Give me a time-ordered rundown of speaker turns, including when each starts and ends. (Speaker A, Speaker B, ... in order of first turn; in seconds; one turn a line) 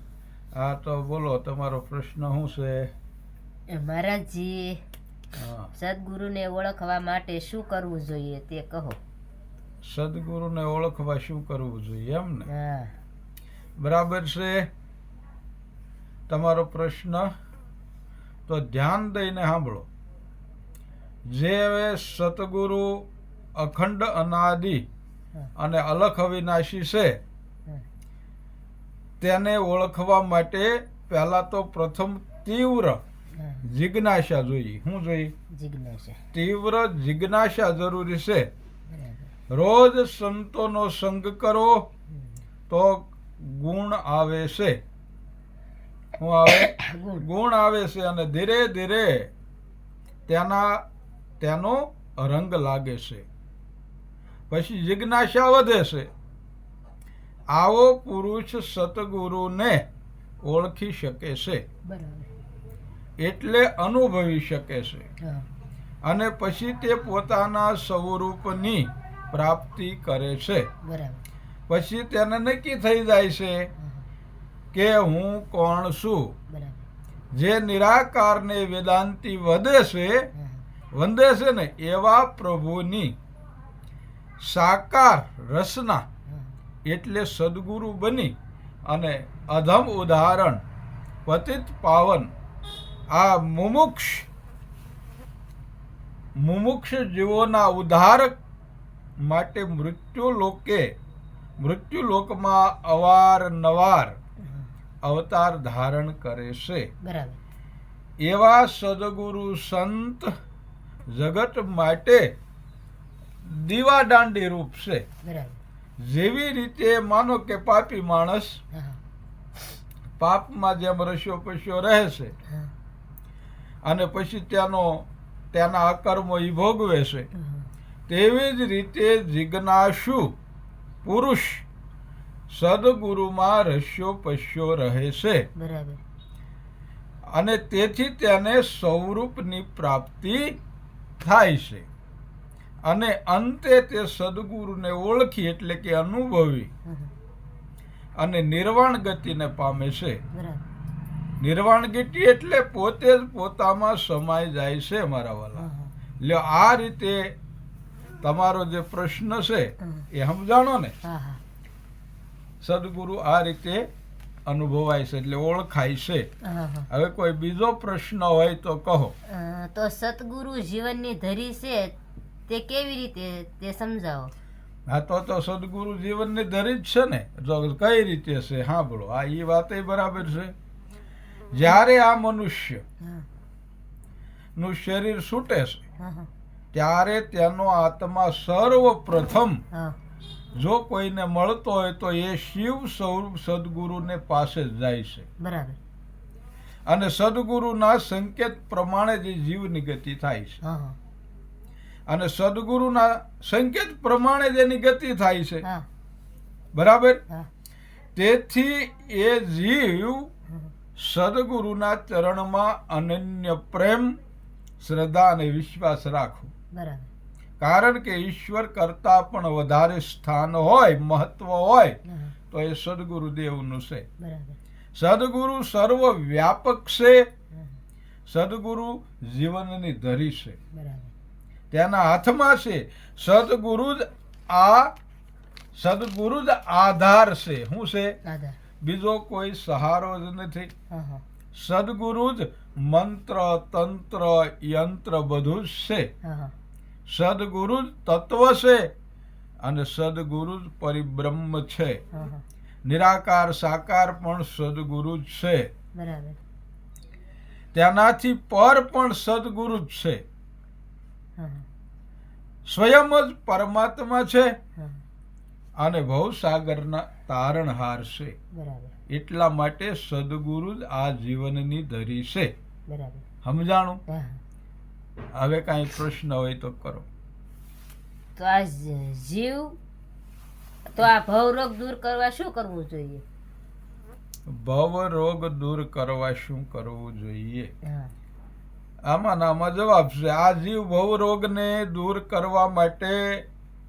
Speaker A: 0.6-2.9
Speaker B: 3.7-4.8
Speaker A: 5.3-5.7
Speaker B: 5.7-9.0
Speaker A: 9.8-12.5
Speaker B: 12.5-12.9
Speaker A: 13.8-14.7
Speaker A: 16.3-17.3
Speaker A: 18.5-19.9
Speaker A: 21.3-23.0
Speaker A: 23.6-24.8
Speaker A: 25.6-27.2
Speaker A: 29.2-33.0
Speaker B: 33.4-33.6
Speaker A: 33.6-35.3
Speaker B: 35.5-36.2
Speaker A: 36.3-38.5
Speaker B: 38.9-39.3
Speaker A: 39.5-41.9
Speaker A: 42.7-44.8
Speaker A: 46.2-49.3
Speaker B: 46.5-47.2
Speaker A: 50.3-50.8
Speaker A: 51.4-53.2
Speaker A: 54.5-56.1
Speaker A: 57.5-59.8
Speaker A: 60.4-61.6
Speaker B: 61.9-62.3
Speaker A: 63.2-65.1
Speaker B: 65.2-65.5
Speaker A: 66.0-70.7
Speaker B: 70.8-71.2
Speaker A: 71.7-73.7
Speaker B: 73.8-74.1
Speaker A: 74.7-76.3
Speaker B: 76.5-76.8
Speaker A: 77.3-80.3
Speaker B: 80.3-80.6
Speaker A: 80.9-83.2
Speaker A: 84.4-86.0
Speaker B: 86.3-86.6
Speaker A: 86.9-88.3
Speaker A: 88.9-90.6
Speaker A: 91.2-92.3
Speaker A: 93.1-94.3
Speaker A: 96.4-98.3
Speaker A: 99.2-100.9
Speaker A: 101.6-104.2
Speaker A: 105.0-106.9
Speaker B: 107.0-107.4
Speaker A: 108.2-110.3
Speaker A: 111.1-112.3
Speaker A: 113.4-115.0
Speaker B: 115.2-115.6
Speaker A: 116.0-118.6
Speaker B: 118.7-119.0
Speaker A: 120.2-122.3
Speaker A: 123.8-127.3
Speaker B: 127.4-127.7
Speaker A: 128.1-130.3
Speaker A: 131.0-131.6
Speaker A: 132.5-135.4
Speaker B: 135.6-136.0
Speaker A: 137.3-140.6
Speaker A: 141.2-141.9
Speaker A: 142.9-146.7
Speaker B: 146.9-147.1
Speaker A: 148.2-150.2
Speaker B: 150.3-150.6
Speaker A: 151.4-155.7
Speaker B: 155.6-155.9
Speaker A: 156.2-157.3
Speaker A: 158.2-160.9
Speaker B: 161.0-161.4
Speaker A: 162.6-163.8
Speaker A: 164.5-166.3
Speaker B: 166.4-166.9
Speaker A: 166.9-169.1
Speaker B: 169.3-171.9
Speaker B: 172.5-174.3
Speaker A: 174.9-180.5
Speaker A: 181.5-182.8
Speaker B: 183.0-183.3
Speaker A: 184.6-185.8
Speaker B: 186.0-186.3
Speaker A: 186.7-189.6
Speaker B: 189.7-190.0
Speaker A: 190.5-195.3
Speaker B: 195.4-195.8
Speaker A: 196.8-200.6
Speaker B: 200.6-201.0
Speaker A: 202.1-205.6
Speaker A: 206.7-207.2
Speaker A: 208.1-210.3
Speaker A: 210.9-214.2
Speaker A: 214.8-216.5
Speaker B: 216.7-217.1
Speaker A: 217.6-222.0
Speaker B: 222.1-222.3
Speaker A: 222.5-224.1
Speaker B: 224.2-224.6
Speaker A: 224.9-227.3
Speaker A: 228.3-230.6
Speaker B: 230.7-231.1
Speaker A: 231.7-234.9
Speaker A: 235.7-238.2
Speaker B: 238.2-238.6
Speaker A: 238.8-240.7
Speaker B: 240.9-241.2
Speaker A: 241.5-246.1
Speaker B: 246.2-246.5
Speaker A: 247.1-248.9
Speaker A: 249.6-252.0
Speaker B: 252.1-252.4
Speaker A: 252.8-255.7
Speaker B: 255.9-256.4
Speaker A: 257.7-260.2
Speaker B: 261.4-261.6
Speaker A: 262.6-264.5
Speaker A: 265.8-268.3
Speaker B: 268.5-268.9
Speaker A: 269.1-272.5
Speaker B: 272.9-273.2
Speaker A: 273.4-274.0
Speaker B: 274.1-274.4
Speaker A: 275.3-277.1
Speaker B: 278.4-279.8
Speaker B: 280.9-283.2
Speaker A: 284.5-287.7
Speaker B: 287.9-288.1
Speaker A: 289.1-293.4